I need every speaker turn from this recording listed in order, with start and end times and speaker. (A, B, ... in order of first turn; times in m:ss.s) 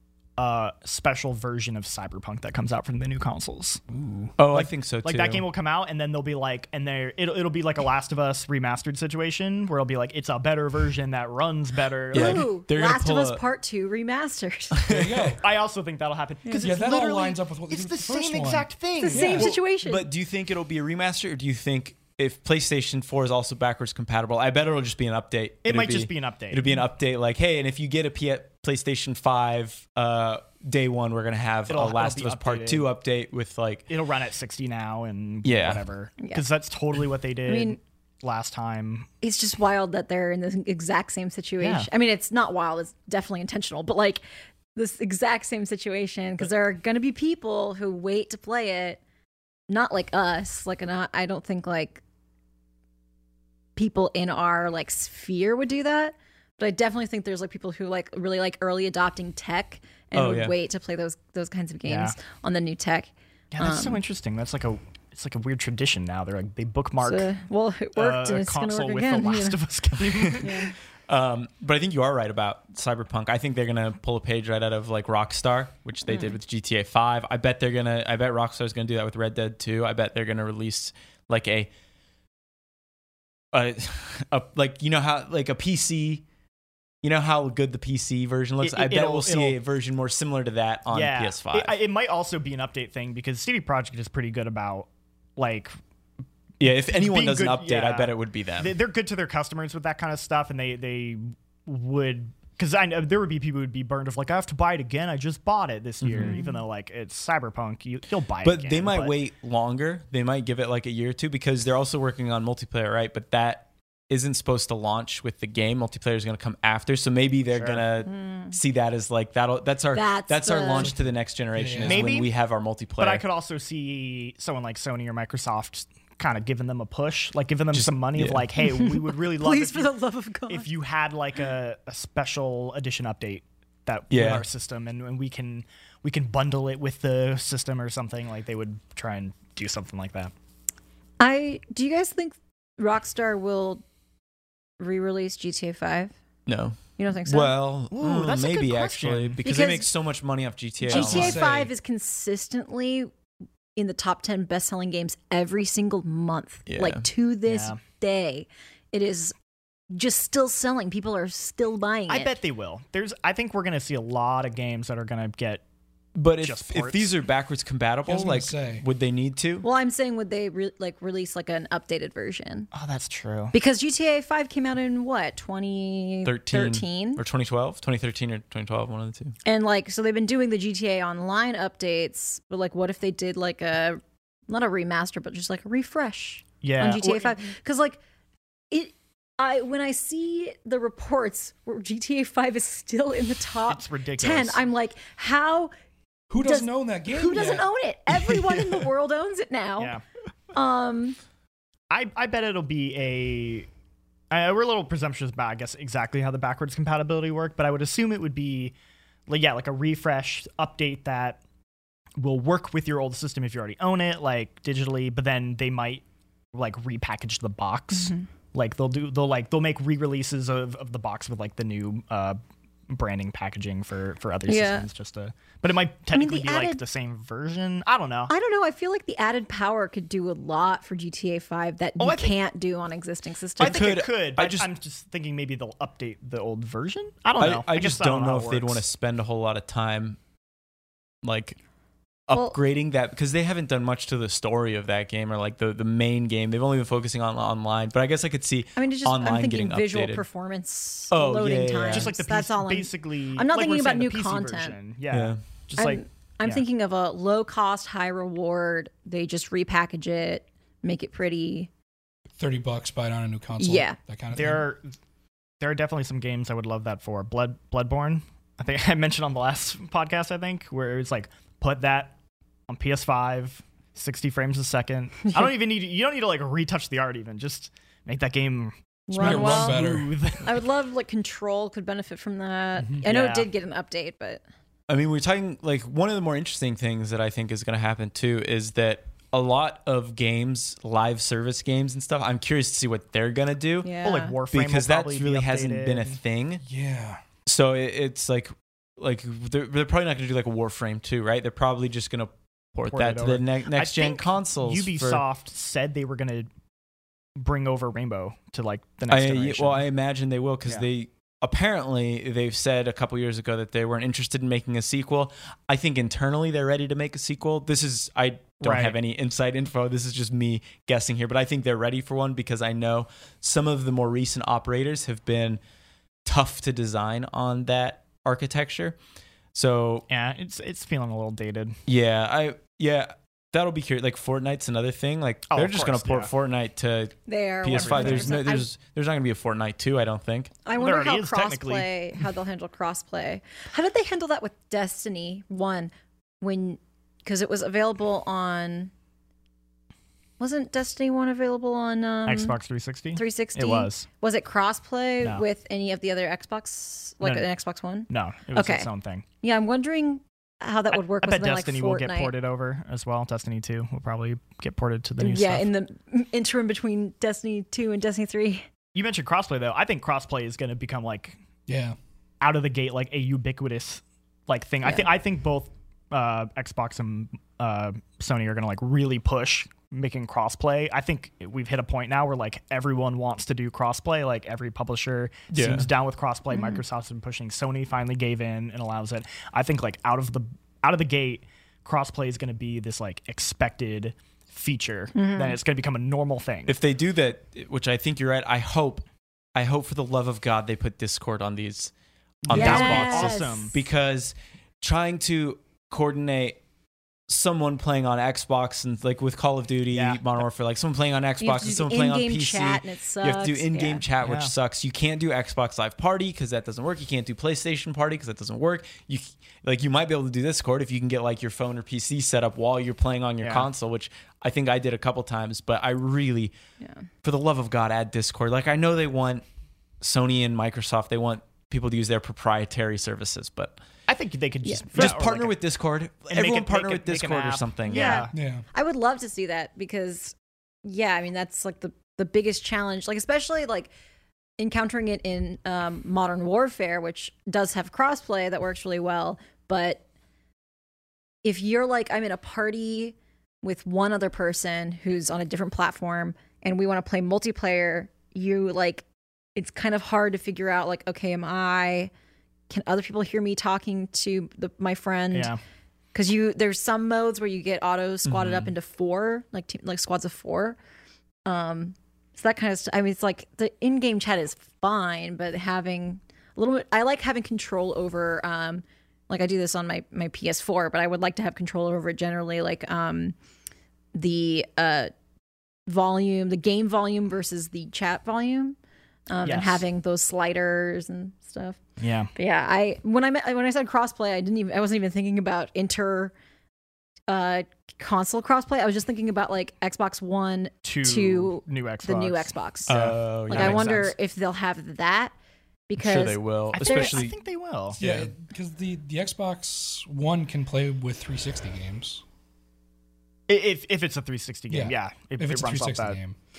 0:00.4-0:12.5 A
0:04.4-0:05.5 B
0:12.1-0:13.4 B
0:12.1-0:14.8 C
0:14.7-0:15.4 B
0:14.9-0:15.4 D
0:15.4-0:19.5 A
0:16.5-0:16.7 C
0:16.6-0:19.5 D
0:19.0-0:20.1 C
0:19.4-0:33.9 B
0:25.6-0:26.6 A
0:31.7-0:32.9 A
0:33.9-0:39.1 A
0:35.4-0:35.8 B
0:37.5-0:37.8 C
0:39.2-0:44.2 C
0:41.6-0:41.9 A
0:44.8-0:49.0 C
0:49.7-0:52.0 C
0:53.8-1:04.0 C
1:00.1-1:00.6 B
1:01.9-1:02.2 A
1:03.5-1:07.3 A
1:07.0-1:09.6 C
1:08.0-1:10.7 A
1:10.4-1:10.7 C
1:11.1-1:21.7 B
1:16.1-1:16.4 C
1:23.5-1:26.2 B
1:27.0-1:31.8 B
1:28.6-1:29.6 A
1:30.9-1:35.7 A
1:36.6-1:38.7 B
1:36.6-1:49.2 A
1:46.0-1:46.4 B
1:46.2-1:46.6 C
1:48.4-2:03.2 B
1:57.5-1:57.8 A
1:58.1-1:58.6 C
1:59.9-2:00.9 C
2:00.8-2:02.1 D
2:01.8-2:02.3 A
2:03.0-2:09.9 A
2:07.7-2:08.4 B
2:08.7-2:10.7 C
2:10.5-2:20.3 A
2:14.1-2:14.4 B
2:21.2-2:23.8 C
2:24.8-2:26.1 C
2:26.5-2:31.4 B
2:27.0-2:27.5 C
2:27.9-2:29.4 A
2:29.4-2:29.9 C
2:30.8-2:33.1 C
2:30.9-2:31.7 D
2:33.8-2:39.3 C
2:36.7-2:37.1 B
2:37.5-2:37.8 A
2:39.9-2:42.3 C
2:42.1-2:45.6 A
2:46.2-2:49.6 B
2:46.4-2:47.1 A
2:48.1-2:48.8 D
2:49.6-2:52.7 C
2:52.7-2:53.5 A
2:53.5-2:57.2 C
2:56.2-2:59.4 B
2:59.4-3:08.0 C
3:06.6-3:07.3 A
3:08.7-3:15.7 C
3:13.7-3:14.6 A
3:16.3-3:17.7 D
3:16.4-3:20.0 C
3:20.5-3:21.2 C
3:21.9-3:23.7 A
3:24.3-3:28.7 A
3:29.3-3:31.4 A
3:32.2-3:36.0 A
3:36.5-3:42.4 A
3:37.9-3:38.2 C
3:42.9-3:48.3 A
3:44.5-3:44.9 C
3:46.1-3:46.8 C
3:48.3-3:53.9 C
3:52.0-3:52.4 A
3:53.6-3:54.7 B
3:53.6-3:58.8 A
3:57.4-4:00.2 B
4:01.2-4:01.6 B
4:02.3-4:10.2 B
4:02.3-4:02.6 C
4:08.8-4:14.8 C
4:11.1-4:12.1 B
4:11.9-4:16.6 A
4:15.1-4:15.4 B
4:15.8-4:21.7 C
4:22.4-4:24.7 D
4:23.6-4:24.0 C
4:24.3-4:24.9 A
4:25.6-4:32.2 A
4:32.7-4:40.6 A
4:39.1-4:39.8 C
4:39.2-4:40.1 D
4:40.4-4:44.4 C
4:43.0-4:43.5 A
4:44.9-4:53.9 B
4:53.8-4:54.4 C
4:54.0-4:56.2 A
4:54.5-4:56.6 B
4:56.6-4:57.2 D
4:57.5-5:05.2 B
5:02.9-5:06.5 A
5:07.4-5:09.8 A
5:09.1-5:25.6 B
5:18.6-5:19.0 A
5:26.2-5:29.0 B
5:29.5-5:30.1 B
5:30.1-5:31.8 A
5:31.9-5:40.5 B
5:35.5-5:36.3 A
5:37.3-5:38.7 C
5:37.7-5:38.4 A
5:40.6-5:48.9 C
5:40.8-5:41.9 A
5:50.4-5:52.6 C
5:52.3-5:54.1 A
5:53.2-5:58.9 C
5:58.1-5:59.2 A
5:59.4-6:02.3 C
6:00.9-6:05.7 A
6:05.2-6:08.7 C
6:09.0-6:11.4 A
6:11.7-6:12.0 D
6:12.4-6:36.8 A
6:25.5-6:25.9 B
6:26.5-6:26.8 C
6:35.2-6:35.6 C
6:36.7-6:41.9 B
6:42.4-6:46.6 B
6:42.5-6:43.8 A
6:42.5-6:43.8 C
6:47.3-7:06.5 B
6:49.9-6:50.4 A
6:51.4-6:54.0 C
6:54.2-6:54.5 A
7:03.4-7:03.7 A
7:07.2-7:09.4 B
7:10.0-7:13.8 B
7:14.1-7:15.6 A
7:14.6-7:15.1 C
7:14.9-7:18.2 B
7:16.3-7:18.3 A
7:17.9-7:23.9 C
7:18.3-7:18.6 D
7:24.6-7:30.0 C
7:31.4-7:39.0 C
7:39.6-7:42.1 C
7:42.7-7:45.5 C
7:45.3-7:45.6 A
7:46.1-7:50.8 C
7:48.3-7:48.7 B
7:51.5-8:03.4 C
8:04.2-8:05.1 C
8:05.9-8:08.8 C
8:09.3-8:11.8 C
8:09.4-8:09.8 A
8:12.0-8:12.3 A
8:12.4-8:16.3 C
8:17.3-8:23.0 C
8:20.8-8:24.1 A
8:22.9-8:23.9 B
8:23.5-8:25.3 C
8:25.9-8:27.3 C
8:26.0-8:27.3 B
8:26.7-8:28.0 A
8:28.0-8:32.2 D
8:28.0-8:28.3 B
8:33.5-8:36.2 A
8:34.7-8:36.4 D